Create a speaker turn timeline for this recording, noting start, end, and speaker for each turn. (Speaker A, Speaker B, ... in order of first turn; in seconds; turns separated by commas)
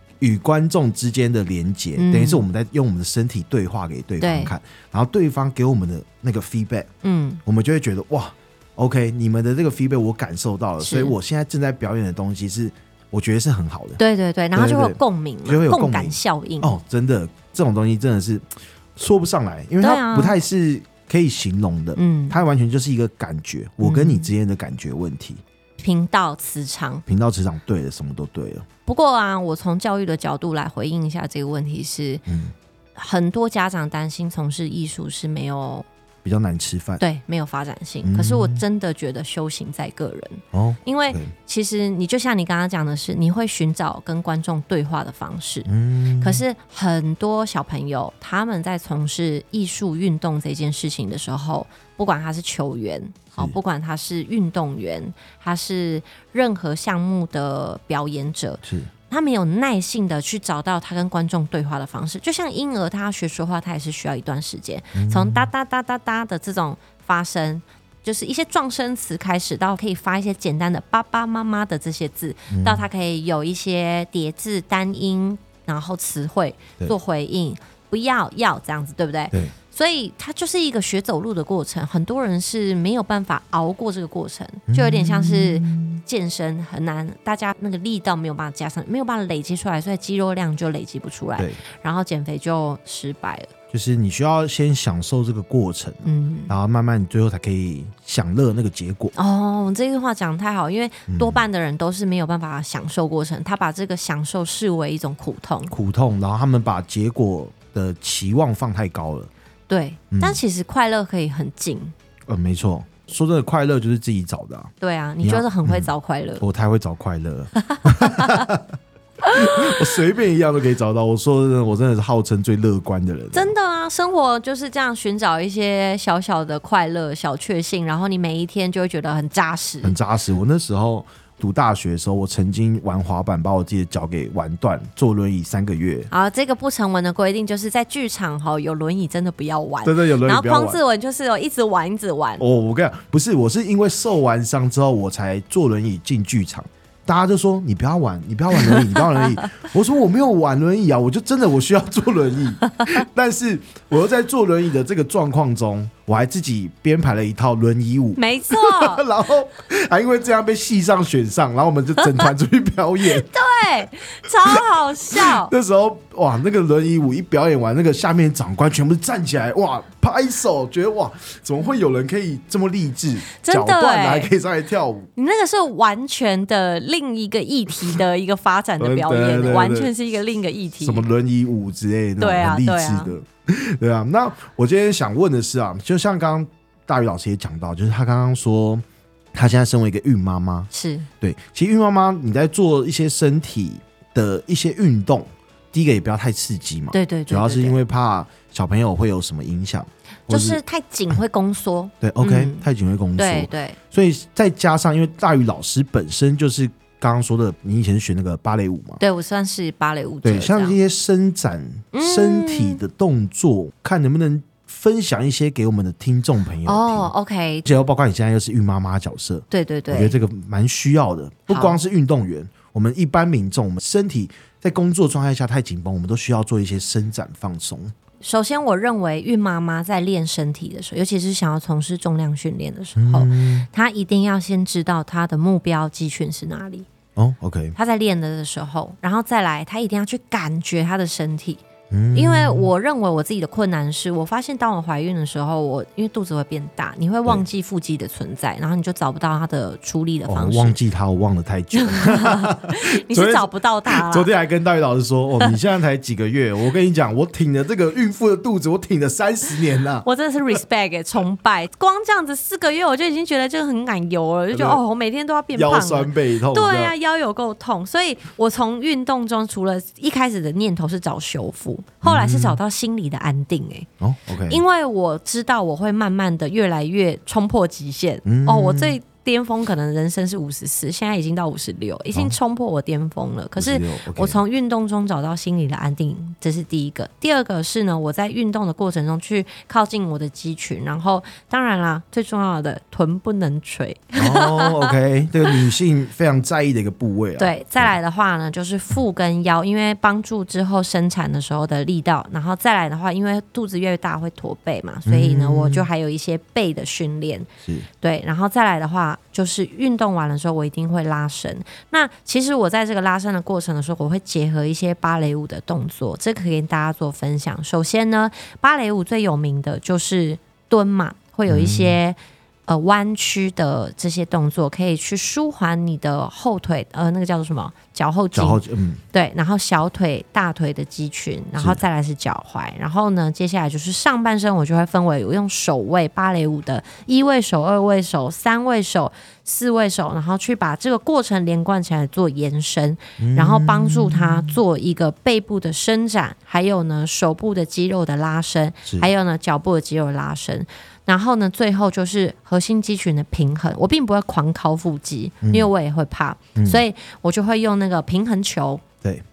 Speaker A: 0.2-6.9, Speaker B: 2.0-2.4, Speaker B: 4.2-4.5, Speaker B: 7.0-7.4, Speaker A: 7.5-14.0, Speaker B: 10.8-11.2, Speaker B: 14.0-16.7, Speaker A: 14.5-25.4, Speaker B: 19.8-20.4, Speaker B: 21.9-22.4, Speaker B: 23.8-24.3, Speaker B: 25.8-27.0, Speaker A: 27.1-28.7, Speaker B: 28.9-32.2, Speaker A: 32.3-32.5, Speaker B: 33.0-35.9, Speaker A: 36.2-37.0, Speaker B: 37.0-93.5, Speaker A: 38.0-38.6, Speaker A: 40.5-41.3, Speaker A: 45.7-46.4, Speaker A: 58.6-58.9, Speaker A: 64.9-65.5, Speaker A: 72.5-72.9, Speaker A: 84.7-86.0, Speaker A: 93.7-99.1, Speaker B: 96.0-96.5, Speaker B: 99.1-105.7, Speaker A: 101.1-101.4, Speaker A: 105.7-109.3, Speaker B: 109.7-111.9, Speaker A: 110.1-110.4, Speaker A: 112.3-118.8, Speaker B: 114.8-116.4, Speaker B: 117.6-118.4, Speaker B: 119.2-119.8, Speaker A: 119.3-123.5, Speaker B: 123.3-130.0, Speaker A: 129.8-136.1, Speaker B: 136.1-142.4, Speaker A: 139.8-140.8, Speaker A: 142.4-163.3, Speaker B: 148.6-149.5, Speaker B: 152.7-153.0, Speaker B: 158.2-159.0, Speaker B: 163.0-165.5, Speaker A: 164.5-175.1, Speaker B: 173.4-174.3, Speaker B: 175.2-181.1, Speaker A: 178.8-179.9, Speaker A: 180.8-190.7, Speaker B: 182.2-183.1, Speaker B: 190.7-191.1, Speaker A: 191.2-200.6, Speaker B: 196.9-197.8, Speaker B: 200.3-203.8, Speaker A: 202.0-209.0, Speaker B: 209.0-210.8, Speaker A: 210.2-217.1, Speaker B: 211.9-212.8, Speaker B: 216.6-217.6, Speaker A: 217.6-227.9, Speaker B: 219.5-220.2, Speaker B: 221.5-221.8, Speaker B: 228.2-236.9, Speaker A: 233.0-233.7, Speaker A: 237.2-237.8, Speaker B: 237.8-250.8, Speaker A: 241.9-242.7, Speaker A: 250.3-260.6, Speaker B: 251.8-254.3, Speaker B: 260.0-273.9, Speaker A: 264.5-264.8, Speaker A: 265.5-266.9, Speaker A: 272.0-272.6, Speaker A: 274.0-274.6, Speaker B: 274.5-294.9, Speaker A: 278.2-279.0, Speaker A: 283.6-284.4, Speaker A: 294.1-297.9, Speaker B: 297.4-307.5, Speaker A: 305.1-305.9, Speaker B: 308.0-358.8, Speaker A: 321.5-322.0, Speaker A: 328.3-329.0, Speaker A: 343.2-344.6, Speaker A: 355.4-355.7, Speaker A: 356.6-356.8